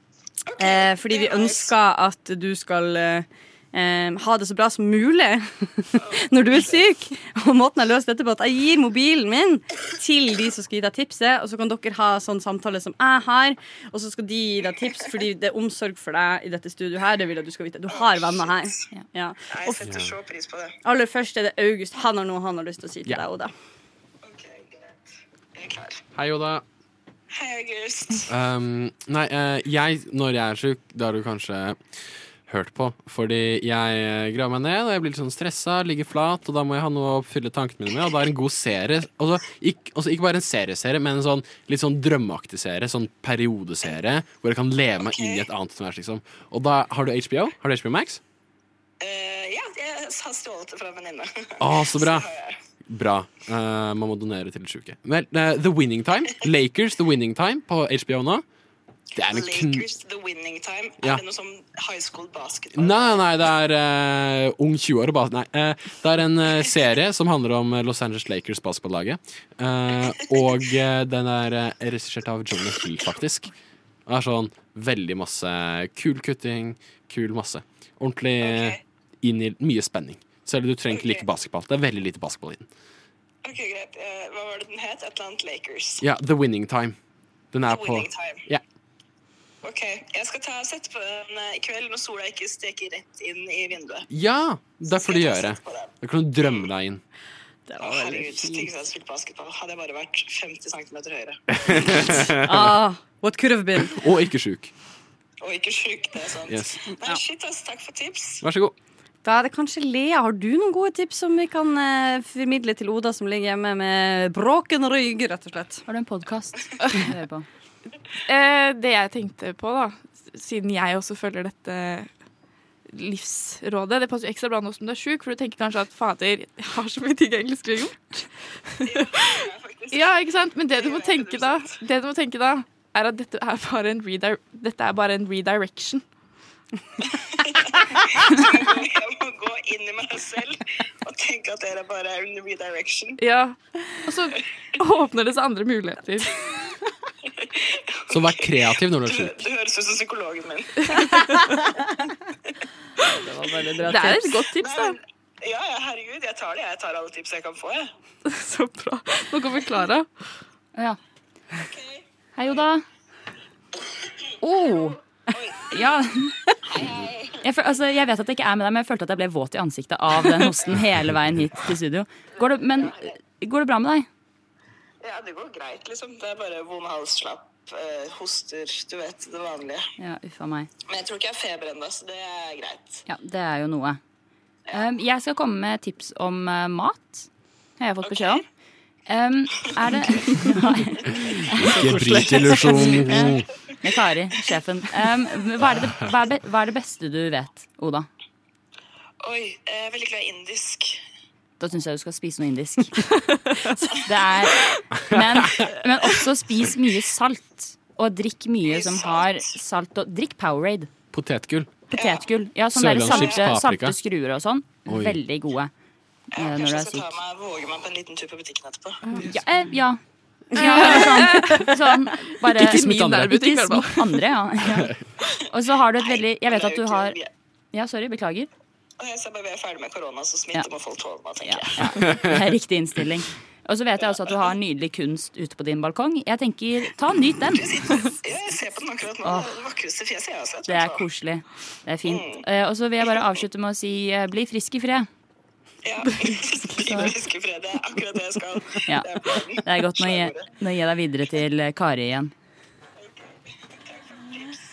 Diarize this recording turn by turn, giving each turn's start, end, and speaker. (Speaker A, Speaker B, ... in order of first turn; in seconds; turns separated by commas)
Speaker A: 0.5-1.7, Speaker B: 0.6-19.9, Speaker A: 6.0-6.8, Speaker A: 17.9-18.8, Speaker A: 19.5-20.8, Speaker C: 19.8-20.1, Speaker B: 20.8-23.5, Speaker A: 24.2-25.0, Speaker A: 25.5-26.0, Speaker C: 26.1-26.6, Speaker A: 27.3-28.3, Speaker C: 28.3-31.8, Speaker C: 32.5-48.2, Speaker A: 45.0-45.5, Speaker A: 49.0-52.5, Speaker C: 51.6-52.3, Speaker C: 52.9-58.4, Speaker C: 59.1-59.9, Speaker A: 59.1-63.2, Speaker C: 62.7-73.5, Speaker C: 74.1-82.7, Speaker A: 78.4-78.8, Speaker A: 80.9-81.2, Speaker A: 83.4-86.0, Speaker C: 86.0-87.0, Speaker C: 87.5-88.6, Speaker A: 87.6-88.4, Speaker A: 89.6-94.1, Speaker C: 94.1-97.0, Speaker A: 94.8-96.7, Speaker B: 97.7-98.7, Speaker A: 97.8-101.4, Speaker C: 101.5-102.8, Speaker B: 102.3-104.0, Speaker C: 103.8-104.7, Speaker A: 105.4-108.4, Speaker C: 106.5-106.8, Speaker C: 108.4-108.7, Speaker B: 109.2-115.8, Speaker D: 115.9-117.5, Speaker E: 118.3-122.1, Speaker E: 122.9-136.0, Speaker A: 128.8-131.8, Speaker A: 137.3-143.2, Speaker E: 143.2-146.4, Speaker A: 147.3-150.9, Speaker C: 148.1-149.4, Speaker B: 153.1-154.5, Speaker E: 153.8-155.0, Speaker A: 154.6-157.9, Speaker E: 158.2-160.1, Speaker A: 161.5-162.6, Speaker D: 162.3-162.8, Speaker D: 164.4-164.9, Speaker A: 164.6-165.9, Speaker D: 165.7-166.3, Speaker A: 166.6-167.4, Speaker D: 167.4-174.1, Speaker A: 172.6-173.1, Speaker A: 175.0-179.8, Speaker D: 180.0-180.7, Speaker A: 180.9-183.0, Speaker D: 183.1-184.0, Speaker D: 184.7-187.3, Speaker D: 187.8-188.4, Speaker A: 188.0-188.4, Speaker D: 189.1-198.1, Speaker C: 191.3-193.4, Speaker E: 192.4-192.8, Speaker A: 199.2-201.0, Speaker D: 201.6-203.1, Speaker D: 204.0-210.9, Speaker C: 205.1-205.7, Speaker A: 208.6-209.4, Speaker C: 211.1-211.7, Speaker D: 211.9-215.7, Speaker A: 211.9-212.3, Speaker C: 212.7-214.0, Speaker A: 213.0-213.5, Speaker C: 214.9-215.2, Speaker D: 216.3-217.2, Speaker A: 216.3-219.0, Speaker E: 219.0-219.3, Speaker D: 219.2-220.0, Speaker D: 220.5-224.9, Speaker B: 220.5-221.8, Speaker E: 220.6-221.6, Speaker E: 222.4-224.3, Speaker C: 224.7-224.9, Speaker D: 225.5-227.2, Speaker A: 226.0-227.3, Speaker D: 227.7-228.5, Speaker A: 229.0-232.1, Speaker D: 231.4-237.7, Speaker C: 232.0-232.4, Speaker A: 237.5-241.1, Speaker D: 239.2-239.5, Speaker D: 240.7-245.1, Speaker A: 242.0-242.4, Speaker A: 245.8-250.5, Speaker D: 246.8-247.1, Speaker D: 248.8-252.3, Speaker A: 253.0-253.3, Speaker A: 253.9-254.6